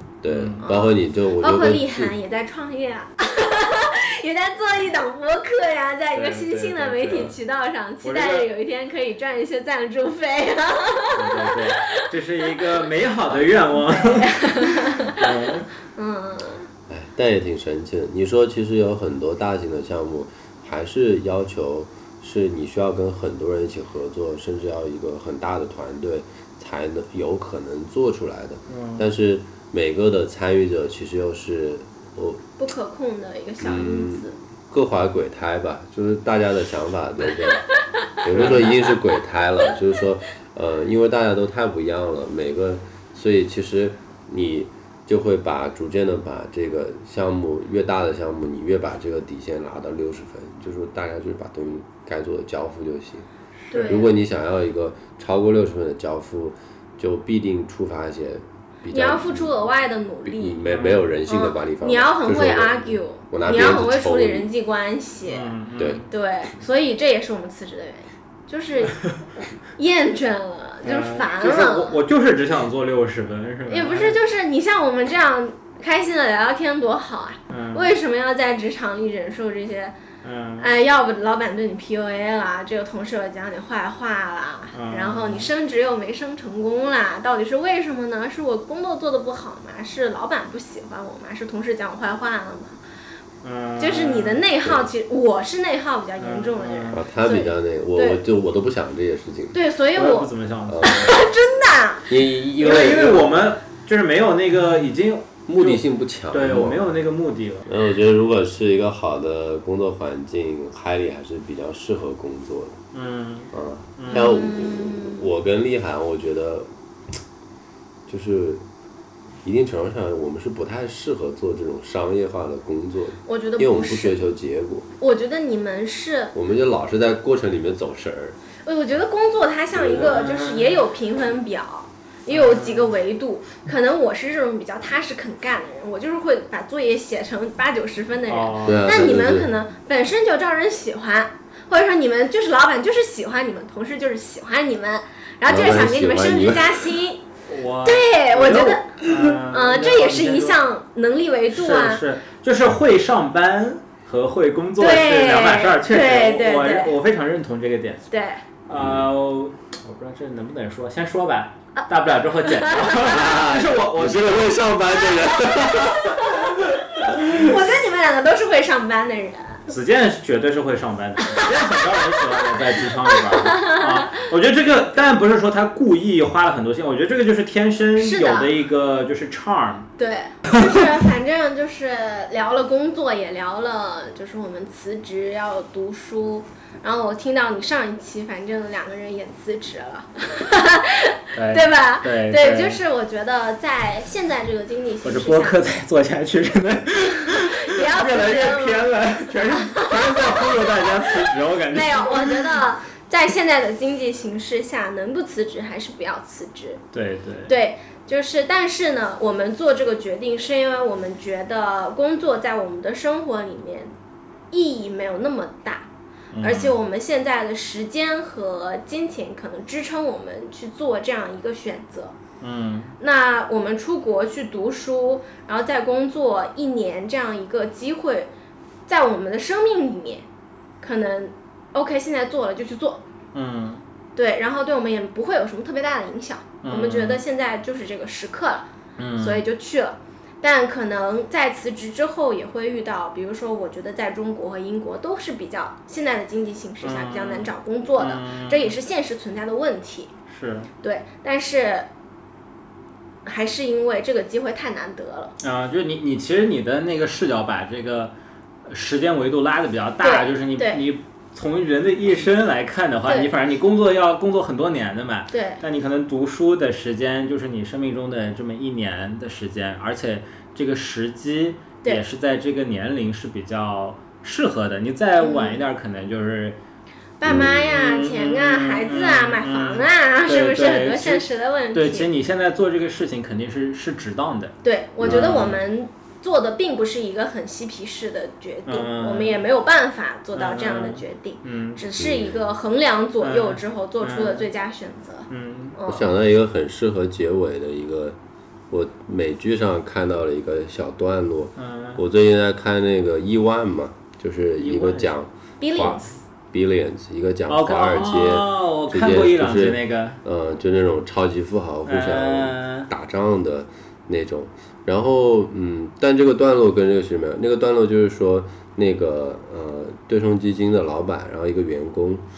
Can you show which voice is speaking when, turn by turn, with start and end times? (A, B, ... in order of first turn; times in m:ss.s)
0:00.2-0:02.1 A
0:00.3-0:00.7 B
0:00.6-0:12.7 C
0:06.1-0:07.4 B
0:08.0-0:08.5 B
0:11.1-0:15.7 B
0:13.7-0:16.7 C
0:16.9-0:32.4 A
0:28.7-0:29.0 B
0:32.6-0:34.3 C
0:33.6-0:37.6 A
0:38.2-0:53.3 A
0:38.3-0:38.8 B
0:53.7-0:54.0 B
0:53.7-0:54.1 C
0:53.9-0:59.5 A
0:58.9-1:00.6 C
1:00.2-1:04.5 A
1:00.6-1:01.0 B
1:01.3-1:12.0 C
1:05.2-1:06.1 B
1:05.8-1:06.0 A
1:10.8-1:14.2 B
1:13.7-1:19.9 C
1:17.5-1:17.9 B
1:20.2-1:20.7 B
1:20.6-1:32.8 C
1:24.7-1:25.5 B
1:33.4-1:34.4 B
1:33.8-1:38.2 C
1:36.2-1:37.0 B
1:36.9-1:39.6 A
1:39.5-1:40.3 C
1:39.9-1:41.2 B
1:40.6-1:41.2 A
1:40.8-1:42.1 C
1:42.1-1:43.3 A
1:42.6-1:47.7 B
1:45.4-1:46.9 A
1:47.6-1:52.8 A
1:52.9-1:54.3 B
1:53.5-1:56.7 A
1:54.1-1:55.2 C
1:58.1-1:58.6 A
1:59.4-2:04.9 A
2:03.2-2:04.2 C
2:05.0-2:06.3 C
2:06.3-2:08.4 A
2:08.6-2:27.2 C
2:09.7-2:10.1 A
2:09.8-2:10.8 B
2:12.3-2:13.0 B
2:18.3-2:19.2 B
2:18.6-2:19.5 A
2:25.4-2:26.9 A
2:27.4-2:30.6 B
2:27.8-2:32.0 C
2:31.5-2:38.1 B
2:34.8-2:36.9 C
2:38.1-2:38.4 C
2:38.7-2:47.6 B
2:38.7-2:39.0 A
2:42.5-2:43.3 C
2:43.1-2:45.9 A
2:45.4-2:49.6 C
2:49.7-2:59.9 B
2:51.2-2:54.3 C
2:58.0-2:58.5 C
3:00.0-3:15.6 C
3:11.3-3:12.8 B
3:15.0-3:22.6 B
3:17.3-3:26.8 C
3:26.9-3:27.5 B
3:27.5-3:33.9 C
3:34.5-3:35.9 C
3:36.3-3:36.7 B
3:36.4-3:42.1 C
3:42.4-3:42.9 B
3:43.0-3:48.3 C
3:48.9-3:50.2 C
3:50.8-3:53.0 C
3:53.3-3:53.8 B
3:54.2-3:58.7 C
3:56.6-3:57.2 B
3:59.0-3:59.4 B
3:59.2-4:10.1 C
4:06.8-4:08.8 B
4:10.3-4:10.7 B
4:10.8-4:11.9 C
4:13.2-4:15.3 C
4:15.4-4:18.1 B
4:18.7-4:36.6 B
4:20.0-4:20.8 C
4:23.0-4:23.3 C
4:25.3-4:25.6 C
4:35.2-4:35.6 C
4:37.2-4:42.1 C
4:37.2-4:37.7 A
4:37.3-4:45.6 B
4:44.6-4:56.1 C
4:45.0-4:45.3 A
4:48.6-4:49.4 B
4:50.3-4:51.8 B
4:52.0-4:52.4 A
4:53.2-4:54.5 B
4:55.3-4:55.8 B
4:55.9-4:58.2 A
4:58.7-5:22.2 A
5:01.6-5:02.0 B
5:04.6-5:05.1 B
5:05.6-5:06.2 C
5:07.5-5:10.2 B
5:11.9-5:12.9 B